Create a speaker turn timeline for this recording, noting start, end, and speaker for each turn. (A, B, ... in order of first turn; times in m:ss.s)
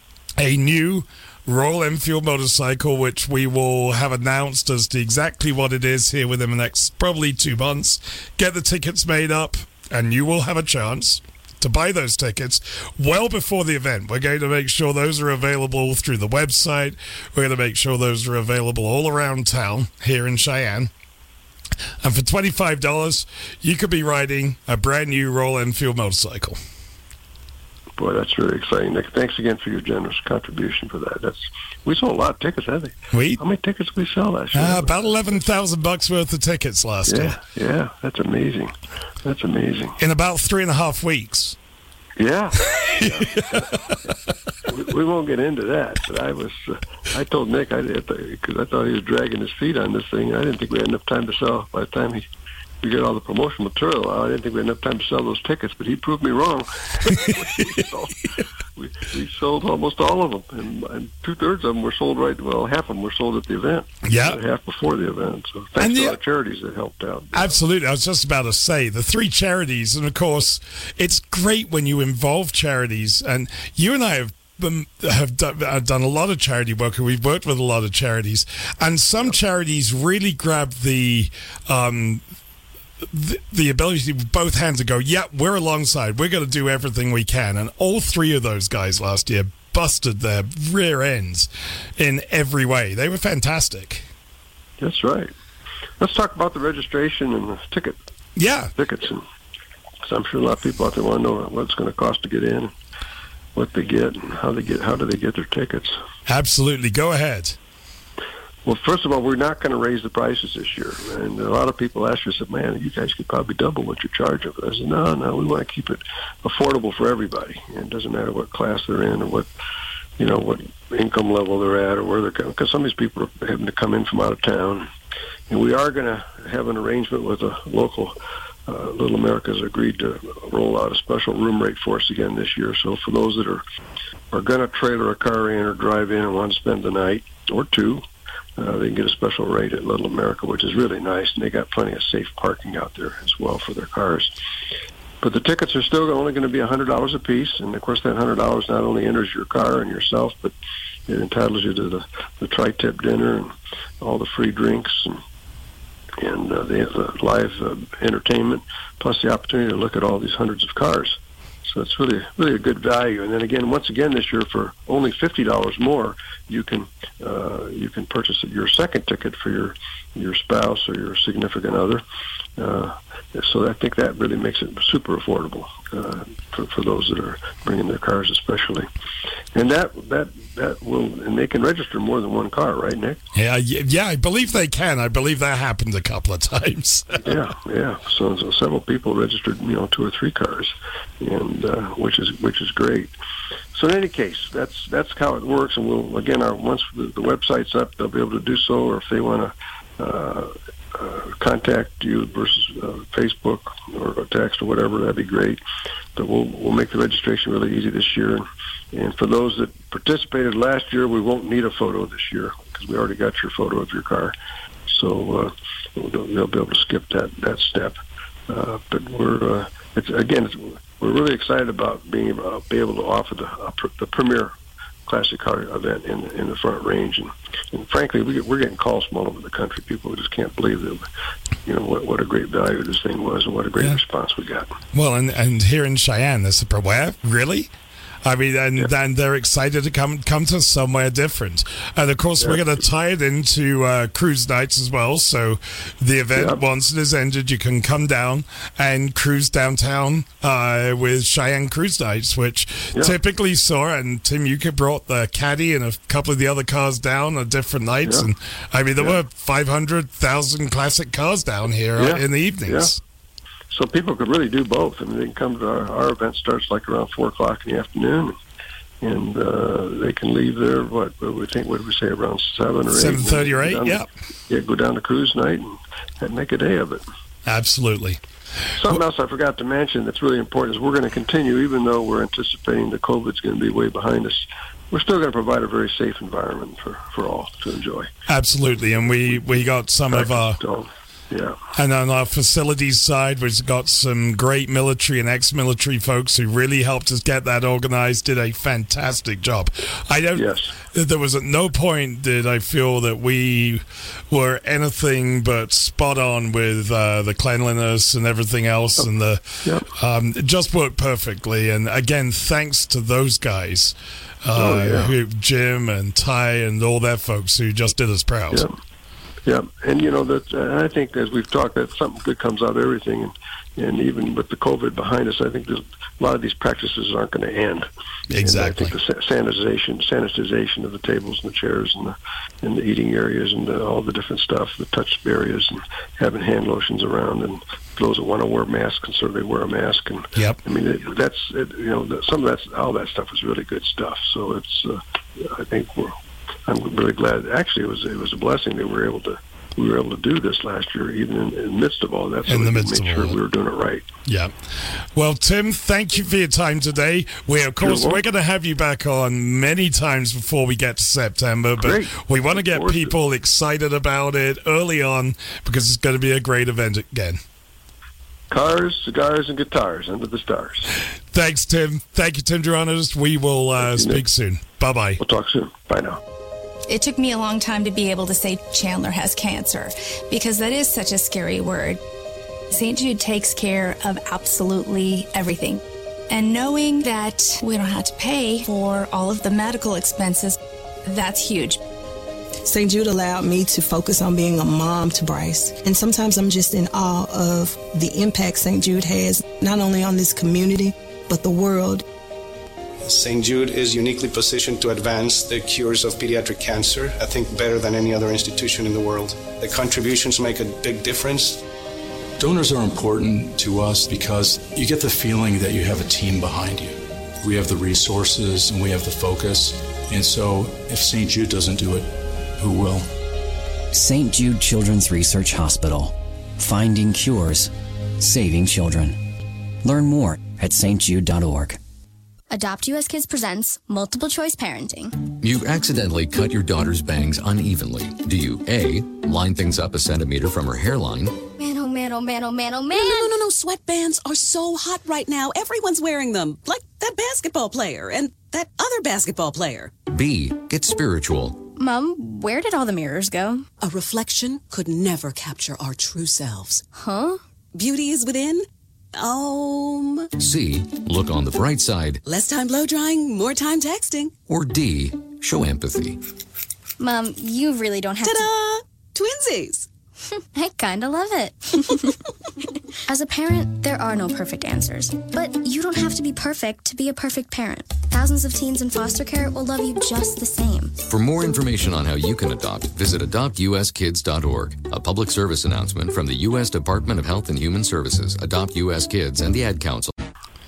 0:00.4-0:20.9 A
0:22.0-0:26.6 A
0:28.0-0:35.4 B
0:33.1-0:33.4 A
0:34.5-0:37.4 A
0:37.1-0:40.0 B
0:40.0-0:41.6 A
0:42.2-0:44.1 B
0:43.0-0:43.6 A
0:44.6-0:52.2 B
0:52.8-1:07.6 B
1:04.0-1:04.4 A
1:05.8-1:06.2 A
1:07.3-1:22.2 A
1:23.0-1:34.1 A
1:34.8-1:35.3 B
1:36.0-1:38.0 B
1:38.4-1:38.7 A
1:38.8-1:39.2 B
1:40.1-1:42.7 B
1:43.5-1:46.0 B
1:46.2-1:47.6 A
1:48.6-1:59.5 B
2:00.2-2:04.9 B
2:05.5-2:08.1 B
2:08.7-2:13.6 B
2:14.3-2:18.0 B
2:18.6-2:24.3 B
2:25.2-2:30.5 B
2:31.1-2:35.2 B
2:36.2-2:52.0 B
2:52.6-2:58.9 B
2:59.5-3:03.2 B
3:03.3-3:07.3 A
3:07.2-3:13.1 B
3:13.7-3:25.6 B
3:26.2-3:34.3 B
3:34.9-3:38.0 B
3:38.5-3:44.5 B
3:45.1-3:51.0 B
3:51.6-3:54.7 B
3:54.9-3:57.7 A
3:58.2-4:23.0 A
4:02.4-4:02.7 B
4:06.3-4:06.6 B
4:22.0-4:22.9 B
4:23.7-4:28.4 B
4:29.0-4:37.0 B
4:32.9-4:34.1 A
4:37.4-4:38.2 A
4:38.8-4:48.1 B
4:48.3-4:50.6 A
4:49.2-4:51.6 B
4:51.7-5:18.6 A
5:00.3-5:00.7 B
5:14.5-5:15.1 B
5:18.5-5:18.8 B
5:19.4-5:27.9 B
5:28.3-5:28.9 A
5:28.4-5:46.1 B
5:46.7-5:54.0 B
5:52.5-5:53.4 A
5:54.2-5:54.5 A
5:55.1-6:07.4 A
5:57.8-5:58.2 B
6:01.8-6:03.1 B
6:08.5-6:10.9 B
6:11.3-6:15.2 A
6:13.8-6:14.2 B
6:15.2-6:16.2 B
6:16.9-6:22.0 C
6:22.7-6:31.8 C
6:32.6-6:42.0 D
6:43.0-6:51.6 E
6:52.4-7:03.1 F
7:03.9-7:09.2 G
7:09.8-7:11.8 G
7:12.5-7:15.2 H
7:15.4-7:21.4 I
7:21.6-7:23.3 H
7:22.9-7:29.9 J
7:30.1-7:31.6 I
7:31.8-7:33.6 H
7:33.8-7:36.8 J
7:36.9-7:37.4 H
7:37.7-7:40.3 J
7:40.4-7:42.2 I
7:42.2-7:44.4 J
7:44.5-7:46.2 I
7:47.0-7:48.5 H
7:48.2-7:49.9 J
7:50.5-7:52.1 H
7:53.1-8:01.0 H
8:01.1-8:10.1 I